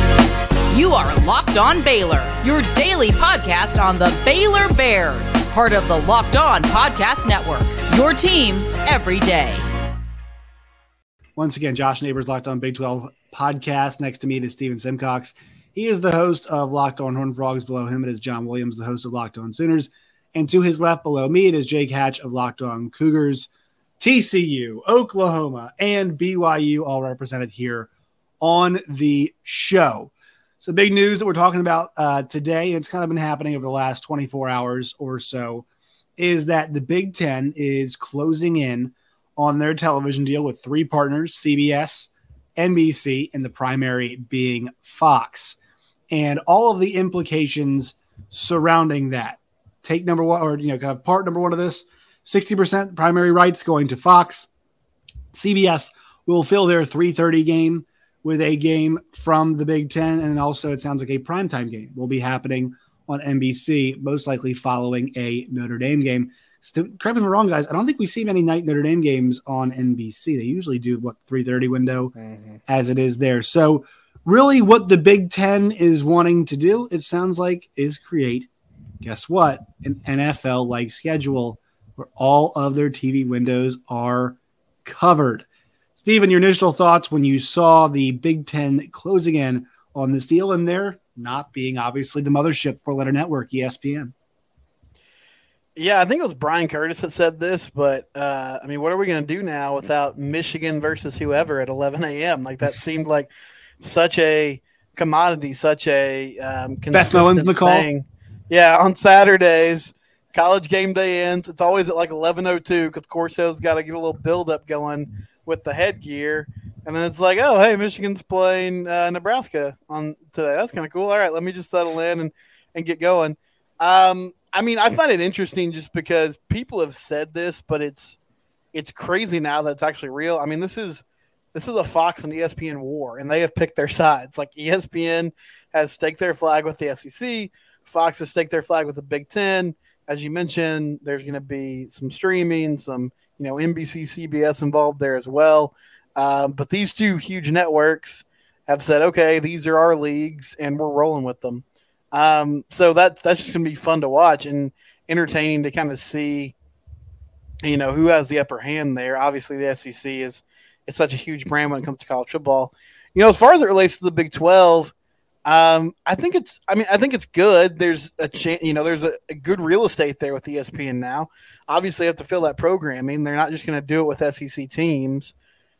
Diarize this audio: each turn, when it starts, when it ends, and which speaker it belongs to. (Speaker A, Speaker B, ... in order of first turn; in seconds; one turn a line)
Speaker A: 0.7-9.6
Speaker B: 11.4-27.9
Speaker B: 28.4-35.7
Speaker B: 36.2-45.6
Speaker B: 46.1-54.5
Speaker B: 55.3-72.1
Speaker C: 72.2-72.6
Speaker B: 72.7-78.5
Speaker B: 79.0-94.1
Speaker C: 95.8-103.3
Speaker C: 103.8-128.2
Speaker B: 106.9-107.9
Speaker C: 128.7-156.5
Speaker C: 157.6-164.9
Speaker C: 165.4-175.3